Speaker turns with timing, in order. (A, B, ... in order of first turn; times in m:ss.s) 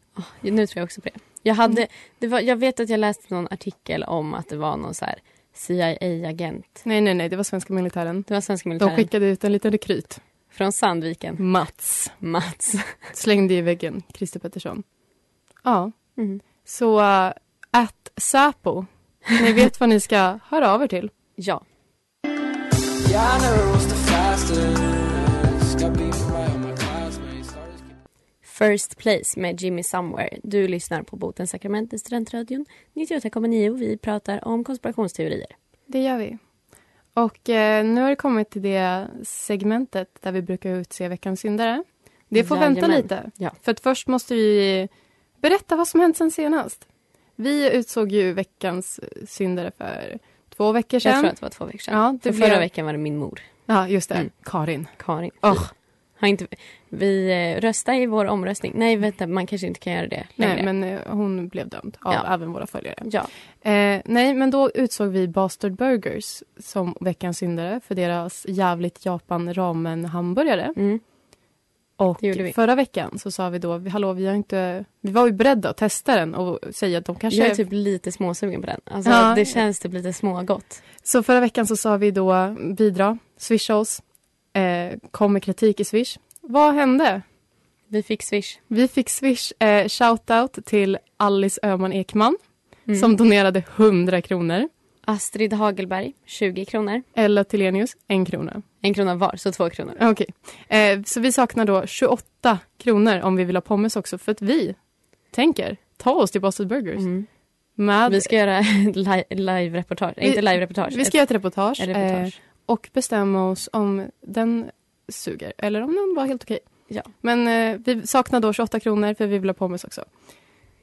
0:00.2-0:06.8 A
0:06.8-0:10.2 B
0:08.3-0:09.1 A
0:10.5-0:11.5 A
0:11.4-0:12.1 B
0:12.1-0:13.0 A
0:13.1-0:14.8 B
0:15.6-0:15.9 B
0:16.6-0:21.1 B
0:21.4-0:21.6 A
0:23.0-0:27.8 C
0:28.4-0:35.5 A
0:35.9-0:36.4 B
0:37.1-0:44.9 B
0:42.3-0:43.5 A
0:45.4-0:46.8 B
0:47.4-0:51.3 B
0:51.0-0:53.5 A
0:51.9-0:52.7 B
0:53.7-0:55.7 B
0:55.0-1:00.7 A
1:00.4-1:03.1 B
1:03.0-1:03.3 A
1:03.6-1:10.8 B
1:10.8-1:11.0 A
1:12.0-1:17.6 B
1:12.2-1:12.6 A
1:17.3-1:20.8 A
1:19.0-1:19.6 B
1:21.0-1:24.0 B
1:24.5-1:27.2 B
1:27.9-1:28.6 A
1:28.7-1:32.4 B
1:32.9-1:34.7 B
1:35.0-1:37.0 A
1:37.1-1:38.6 B
1:38.8-1:40.0 A
1:40.0-1:44.8 B
1:45.3-1:47.1 B
1:47.0-1:47.3 A
1:47.8-1:48.3 B
1:48.1-1:52.3 A
1:50.2-2:00.1 B